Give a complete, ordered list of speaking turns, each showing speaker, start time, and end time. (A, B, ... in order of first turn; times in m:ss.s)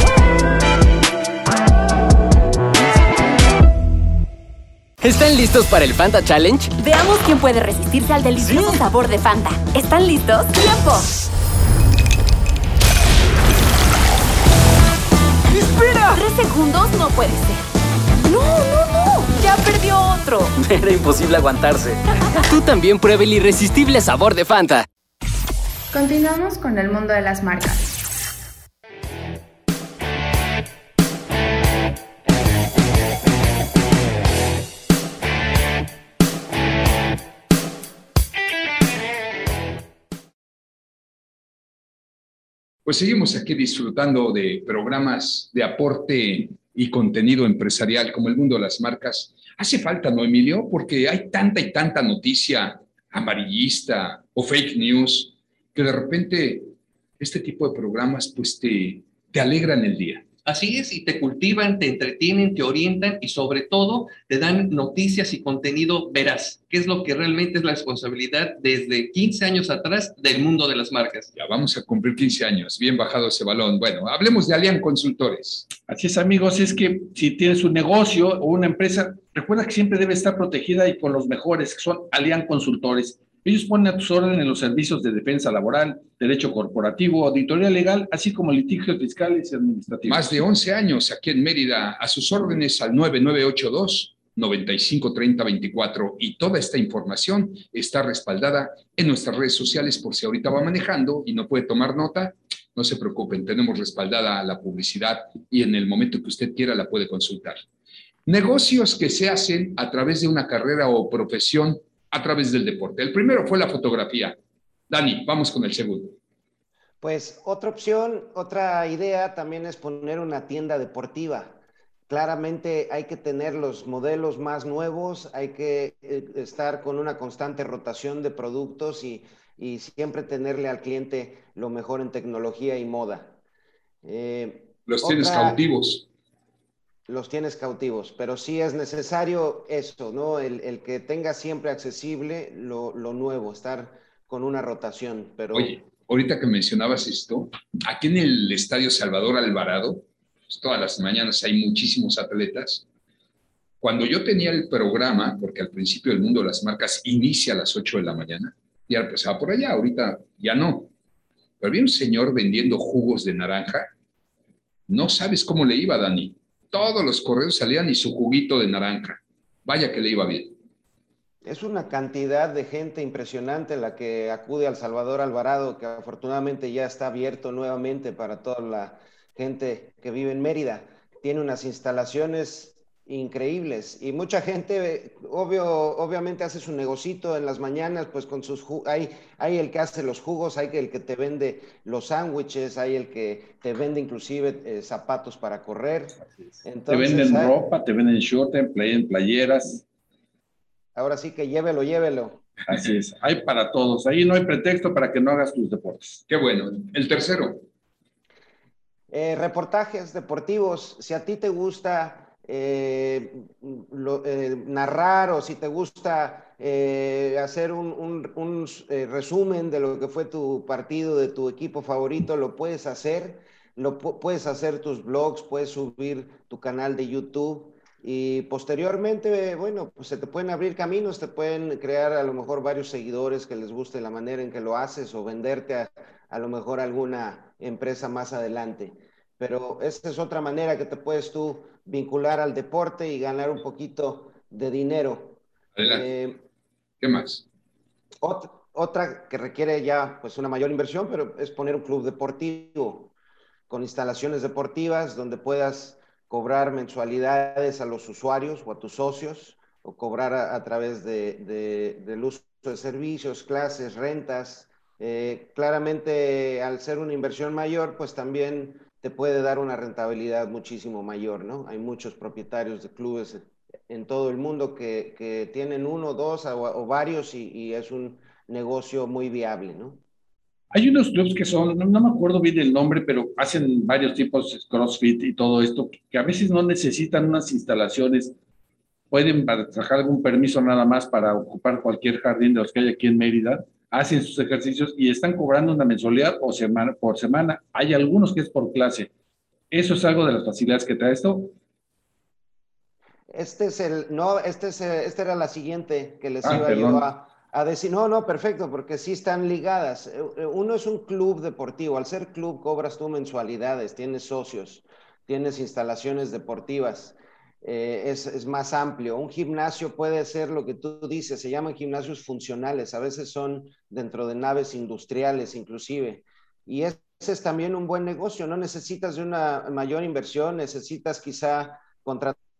0:05.0-0:06.7 A
0:06.7-0:11.1 B
0:15.6-0:16.1 A
0:16.1-0:17.6 B
0:18.3-0:20.5 B
0:20.6-0:24.8 A
0:25.9-0:27.9 C
0:42.8-1:00.2 D
1:00.4-1:11.3 E
1:11.3-1:15.7 D
1:15.8-1:30.4 F
1:30.1-1:47.6 D
1:48.2-1:54.4 D
1:54.9-1:56.2 D
1:57.0-2:13.4 G
2:14.0-2:15.6 G
2:14.9-2:16.0 D
2:17.1-2:25.7 G
2:25.5-2:32.8 D
2:33.8-2:40.9 D
2:41.6-2:43.9 D
2:44.9-2:50.5 D
2:51.4-3:17.6 G
3:16.9-3:19.8 F
3:20.9-3:22.4 G
3:22.7-3:26.2 F
3:26.3-3:27.6 D
3:29.1-4:06.4 G
4:05.8-4:06.0 D
4:07.0-4:07.4 D
4:08.2-4:13.1 G
4:13.7-4:40.0 G
4:40.7-4:48.3 F
4:49.1-4:59.1 F
4:59.7-5:01.5 F
5:03.3-5:32.4 G
5:06.4-5:07.0 F